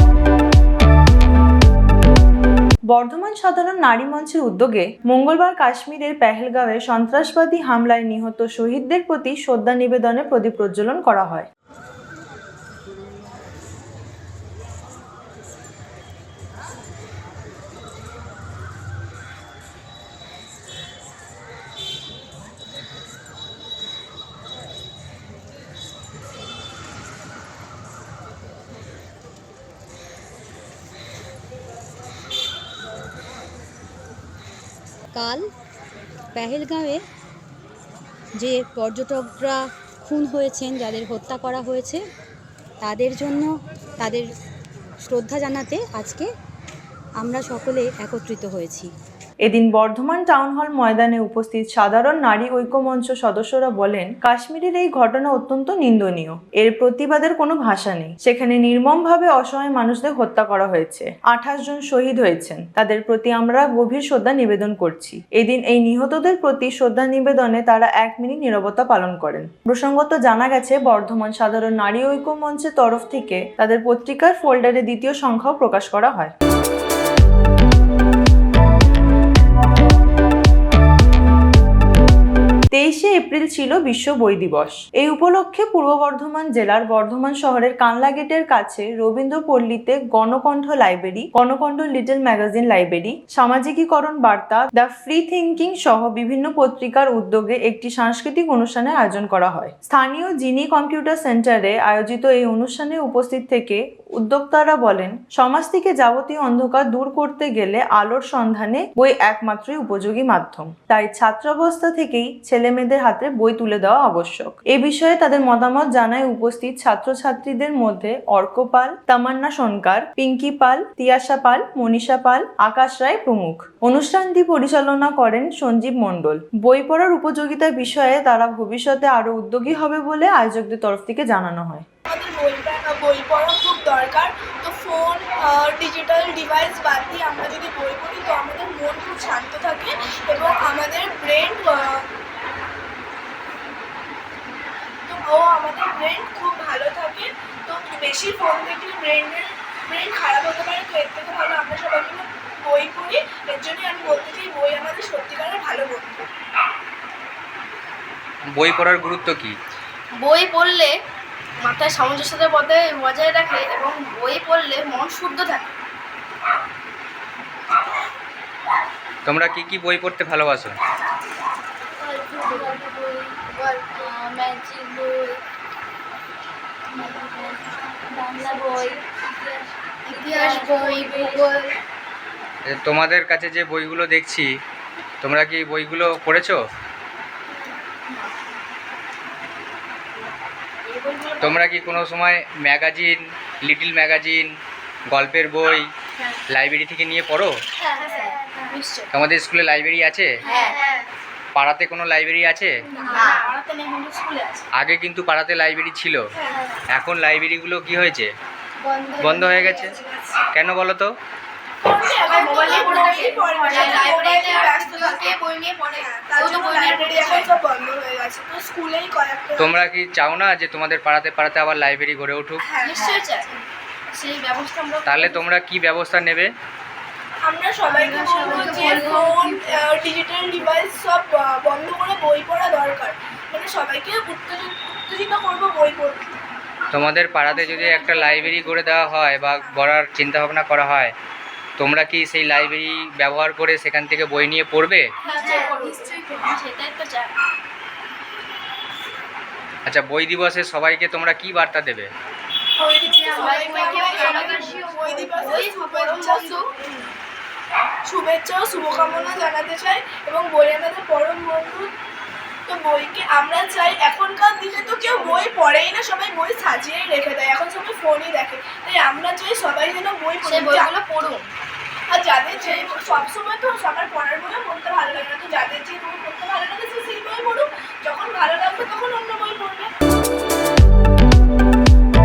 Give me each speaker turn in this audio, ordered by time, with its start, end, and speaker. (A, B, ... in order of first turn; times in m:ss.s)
0:02.9-0:11.5 A
0:35.2-0:35.4 B
0:36.4-0:37.0 B
0:38.4-0:39.6 B
0:40.1-0:42.0 B
0:42.9-0:43.5 B
0:45.1-0:46.2 B
0:47.2-0:48.9 B
0:49.4-1:16.3 A
1:22.7-2:11.8 A
2:12.1-2:22.0 C
2:25.1-2:36.2 C
2:38.5-2:39.6 D
2:40.2-2:40.9 E
2:41.6-2:45.7 E
2:49.2-2:50.8 D
2:52.0-2:55.4 E
2:56.9-3:01.8 E
3:02.7-3:04.5 D
3:05.2-3:06.6 D
3:10.9-3:11.9 E
3:11.4-3:14.5 D
3:15.1-3:15.8 D
3:16.5-3:17.5 D
3:17.9-3:19.1 E
3:18.0-3:18.3 C
3:19.1-3:20.3 D
3:20.4-3:21.1 E
3:20.5-3:20.8 C
3:21.5-3:22.7 D
3:22.9-3:23.5 E
3:23.0-3:24.6 C
3:24.7-3:26.2 D
3:26.4-3:26.7 C
3:26.9-3:28.3 D
3:28.8-3:30.3 E
3:29.2-3:29.9 D
3:30.5-3:31.1 D
3:31.8-3:39.8 C
3:32.2-3:37.6 E
3:39.6-3:42.7 D
3:42.6-3:43.4 C
3:42.8-3:45.4 E
3:45.0-3:46.5 D
3:47.4-3:56.4 C
3:47.9-3:50.7 E
3:56.9-4:01.1 D
3:57.5-3:58.2 E
3:57.5-3:59.8 C
4:01.8-4:05.0 D
4:05.2-4:06.5 C
4:05.3-4:07.3 E
4:09.8-4:12.1 D
4:12.8-4:16.7 C
4:13.0-4:16.9 E
4:18.0-4:21.9 C
4:19.0-4:19.3 E
4:22.7-4:30.9 C
4:24.7-4:25.5 E
4:30.4-4:31.5 E
4:32.1-4:39.9 C